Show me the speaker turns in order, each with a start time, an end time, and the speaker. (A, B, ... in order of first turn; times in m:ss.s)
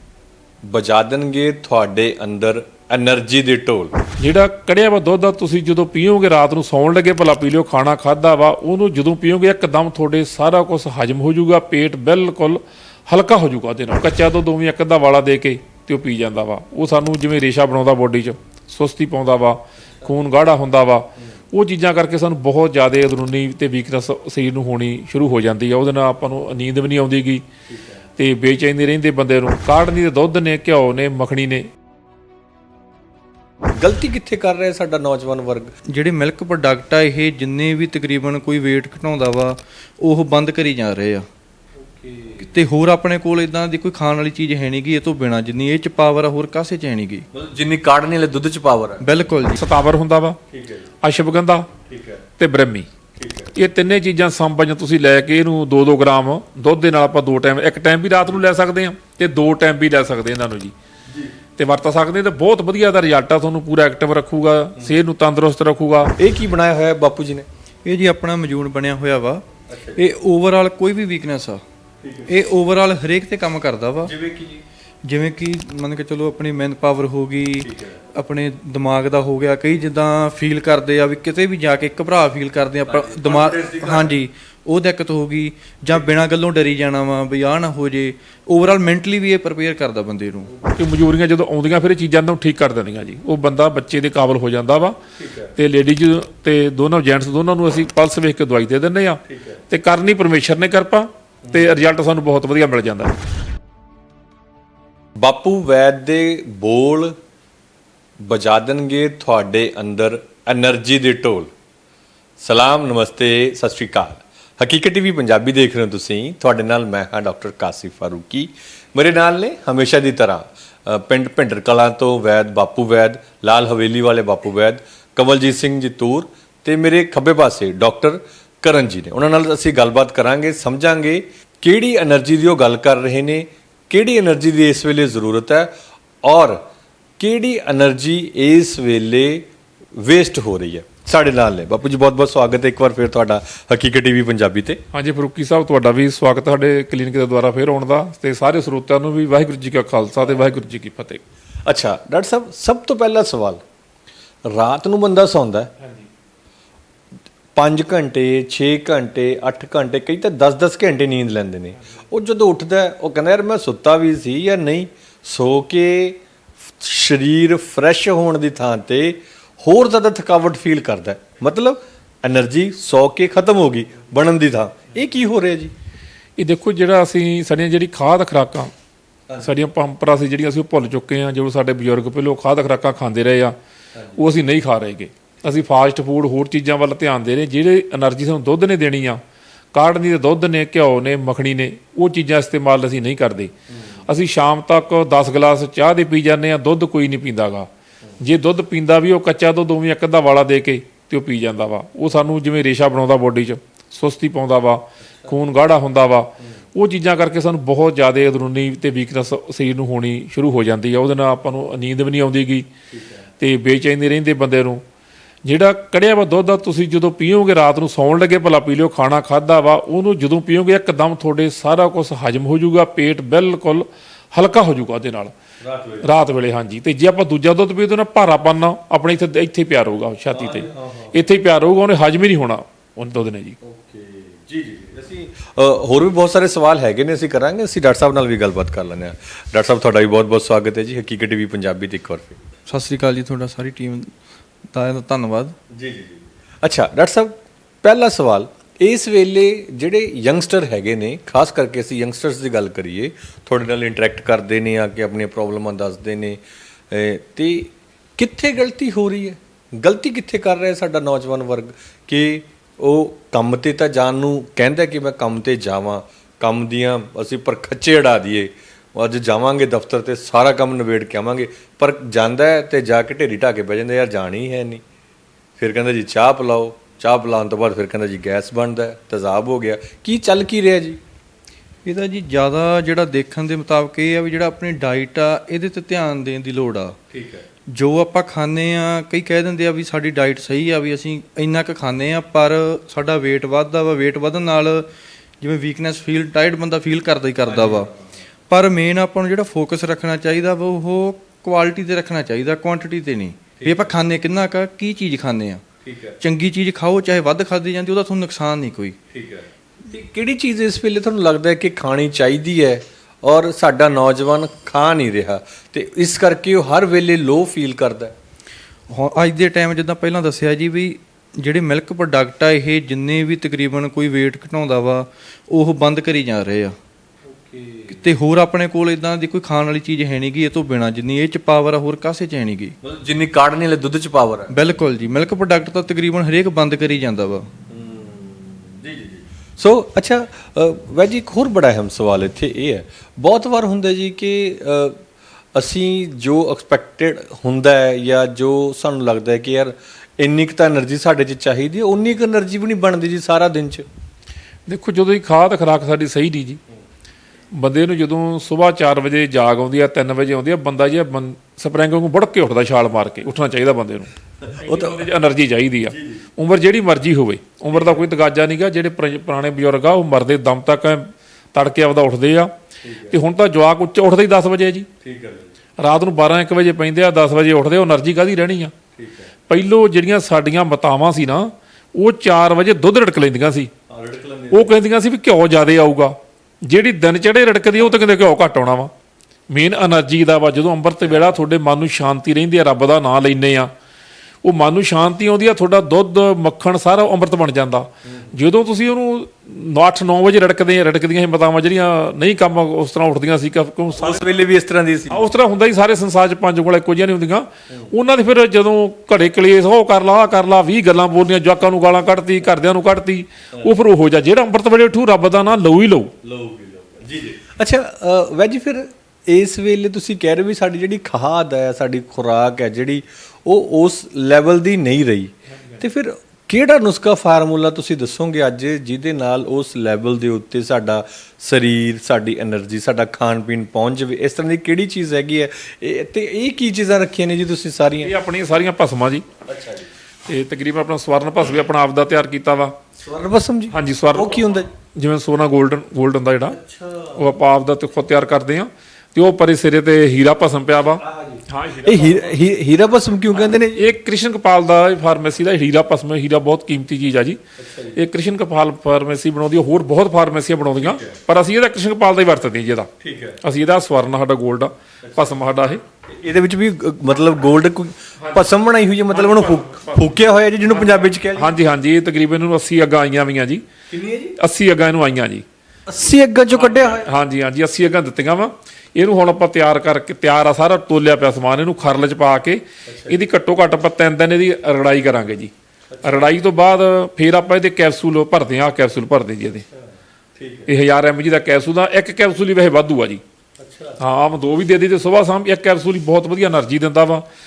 0:00.6-0:03.9 A
0:04.2-0:27.4 B
0:27.7-0:28.0 A
0:28.2-0:31.7 B
0:33.8-0:35.7 A
0:35.8-0:41.2 C
0:42.0-0:42.4 A
0:42.4-0:47.2 C
0:47.3-0:49.1 A
0:49.0-0:49.6 C
0:49.6-0:50.4 B
0:50.5-0:50.9 A
0:51.0-0:51.7 B
0:51.9-0:52.2 A
0:52.4-0:52.9 B
0:53.2-0:53.5 A
0:53.5-1:00.7 B
1:01.1-1:01.3 A
1:01.6-1:06.1 B
1:06.2-1:07.4 A
1:07.8-1:11.6 C
1:09.7-1:10.0 A
1:12.0-1:12.3 A
1:12.3-1:14.1 C
1:14.0-1:14.6 A
1:15.0-1:30.5 C
1:17.6-1:18.0 A
1:22.9-1:24.2 A
1:30.7-1:35.0 B
1:35.2-1:35.5 A
1:35.6-1:43.2 B
1:39.3-1:39.6 A
1:45.2-1:47.1 A
1:48.2-1:51.5 A
1:52.4-2:15.7 A
2:16.2-2:16.6 A
2:17.2-2:24.8 A
2:24.9-2:31.2 B
2:30.2-2:30.5 A
2:31.6-2:33.6 A
2:34.5-2:35.7 A
2:37.5-2:46.2 A
2:46.8-2:55.7 A
2:56.4-2:58.7 B
2:59.3-2:59.5 A
2:59.4-3:03.6 B
3:03.9-3:04.2 A
3:04.2-3:09.2 B
3:09.7-3:13.5 B
3:13.7-3:14.0 A
3:14.1-3:17.7 B
3:18.2-3:32.7 B
3:32.9-3:33.3 A
3:33.4-3:34.8 B
3:35.4-3:45.3 B
3:45.6-3:46.1 A
3:46.0-3:53.6 B
3:50.3-3:51.2 A
3:53.6-4:02.4 A
4:02.7-4:04.1 C
4:04.7-4:05.6 C
4:05.7-4:16.4 A
4:16.9-4:34.8 A
4:35.6-4:41.0 A
4:41.8-4:47.0 C
4:47.1-4:47.4 A
4:47.7-4:57.9 C
4:57.4-4:58.2 A
4:58.5-5:05.6 C
5:03.6-5:03.9 A
5:05.8-5:06.2 A
5:06.2-5:09.0 C
5:09.1-5:18.1 A
5:18.9-5:26.7 C
5:27.3-5:28.0 A
5:27.9-5:32.8 C
5:32.8-5:34.5 A
5:34.5-5:37.5 C
5:37.7-5:45.0 A
5:45.5-5:53.8 A
5:54.7-5:56.6 B
5:57.5-6:12.5 B
6:04.4-6:05.1 A
6:05.9-6:06.3 A
6:07.7-6:08.1 A
6:12.8-6:13.2 A
6:13.1-6:14.9 B
6:15.0-6:15.5 A
6:15.8-6:18.7 B
6:18.9-6:19.3 A
6:19.5-6:23.7 B
6:23.9-6:24.7 A
6:24.5-6:28.9 B
6:29.5-6:33.7 B
6:34.4-6:44.2 B
6:43.9-6:45.3 A
6:45.1-6:56.1 B
6:56.2-7:18.1 A
7:18.0-7:19.2 B
7:19.4-7:19.9 A
7:20.3-7:22.7 B
7:23.0-7:24.7 A
7:23.7-7:26.6 B
7:26.5-7:27.4 A
7:27.1-7:32.4 B
7:30.8-7:33.9 A
7:33.4-7:37.4 B
7:37.6-7:38.0 A
7:37.9-7:42.9 B
7:40.8-7:41.2 A
7:43.0-7:43.4 A
7:43.4-7:45.8 B
7:45.0-7:45.4 A
7:46.0-7:51.6 A
7:48.2-7:48.5 B
7:49.1-7:53.6 B
7:53.9-7:54.4 A
7:54.4-7:55.4 B
7:55.9-7:57.1 A
7:56.5-8:05.5 B
8:02.8-8:03.3 A
8:05.9-8:06.4 A
8:06.0-8:09.6 B
8:09.7-8:10.7 A
8:10.7-8:13.2 B
8:13.6-8:14.0 A
8:14.0-8:17.2 B